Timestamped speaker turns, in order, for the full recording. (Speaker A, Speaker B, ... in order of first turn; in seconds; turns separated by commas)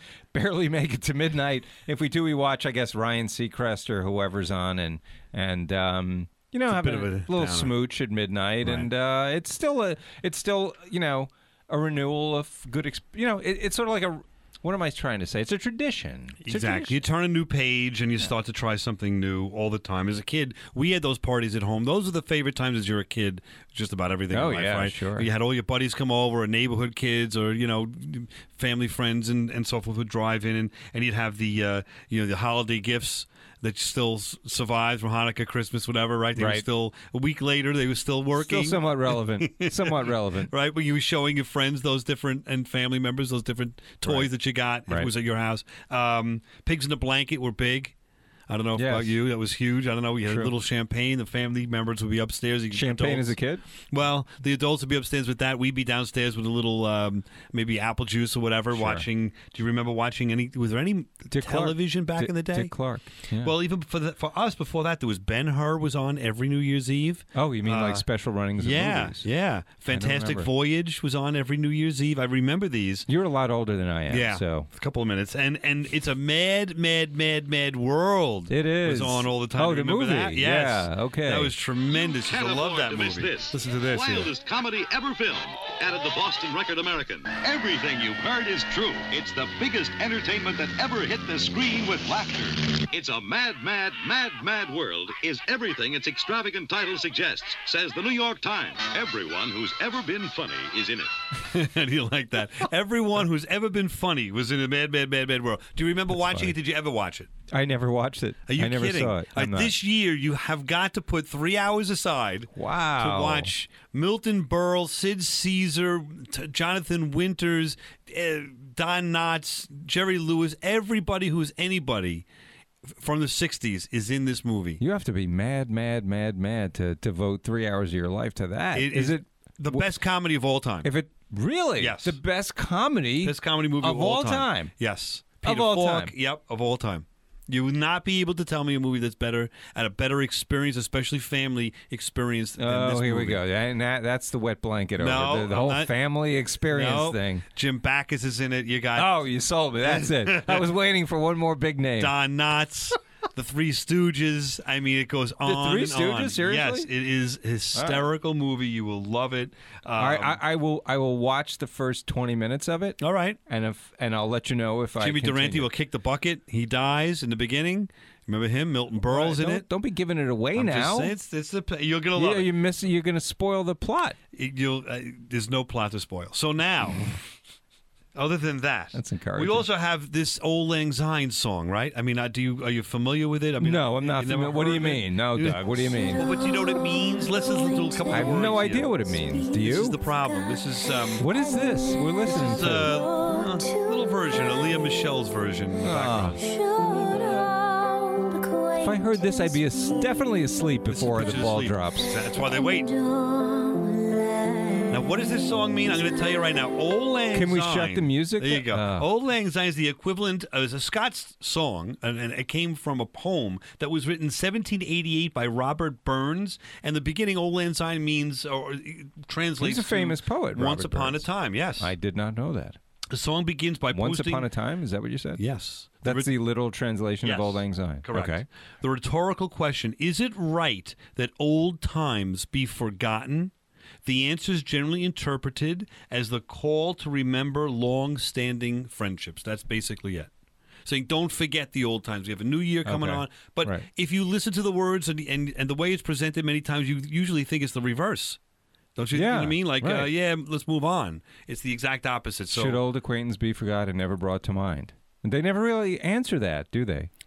Speaker A: 0.3-17.0, Speaker B: 6.7-7.7, Speaker B: 8.6-8.9, Speaker B: 16.4-47.9, Speaker A: 24.3-25.3, Speaker A: 36.4-36.6, Speaker A: 38.4-40.5, Speaker A: 44.9-45.1, Speaker B: 48.5-53.4, Speaker A: 48.8-49.1, Speaker A: 50.2-50.5, Speaker A: 52.7-53.6, Speaker B: 53.9-62.8, Speaker A: 58.7-59.0, Speaker A: 61.3-63.5, Speaker B: 63.4-68.0, Speaker A: 67.3-69.3, Speaker B: 68.6-73.1, Speaker A: 69.9-70.5, Speaker A: 73.1-74.7, Speaker B: 74.1-84.3, Speaker A: 78.5-81.5, Speaker C: 81.9-101.1, Speaker B: 101.5-107.3, Speaker A: 106.1-106.5, Speaker A: 107.5-109.7, Speaker B: 108.5-122.2, Speaker A: 112.5-113.5, Speaker B: 123.0-124.8, Speaker A: 124.8-129.9, Speaker B: 128.7-130.9, Speaker A: 130.8-134.7, Speaker B: 131.8-132.2, Speaker B: 133.2-143.4, Speaker A: 135.4-136.1, Speaker A: 142.6-147.4, Speaker B: 145.0-145.9, Speaker B: 146.7-149.2, Speaker A: 149.0-152.1, Speaker B: 149.8-150.7, Speaker B: 152.0-160.4, Speaker A: 155.4-156.9, Speaker A: 157.7-158.1, Speaker A: 160.0-165.7, Speaker B: 163.0-163.4, Speaker B: 165.0-169.7, Speaker A: 169.1-171.1, Speaker B: 170.5-172.5, Speaker A: 172.2-174.2, Speaker B: 174.3-177.1, Speaker B: 178.1-191.3, Speaker A: 178.9-179.6, Speaker A: 183.6-186.2, Speaker A: 188.1-190.0, Speaker A: 191.2-192.9, Speaker B: 192.3-196.4, Speaker A: 195.8-196.4, Speaker A: 198.8-202.1, Speaker B: 200.9-202.9, Speaker B: 204.9-221.9, Speaker A: 207.3-209.1, Speaker A: 219.6-222.8, Speaker B: 223.1-224.5, Speaker A: 223.9-225.4, Speaker B: 225.4-226.3, Speaker A: 226.0-228.4, Speaker B: 227.2-233.5, Speaker B: 234.0-240.3, Speaker B: 240.8-248.4, Speaker A: 242.8-243.8, Speaker B: 248.9-252.8, Speaker A: 249.1-250.1, Speaker A: 252.5-257.1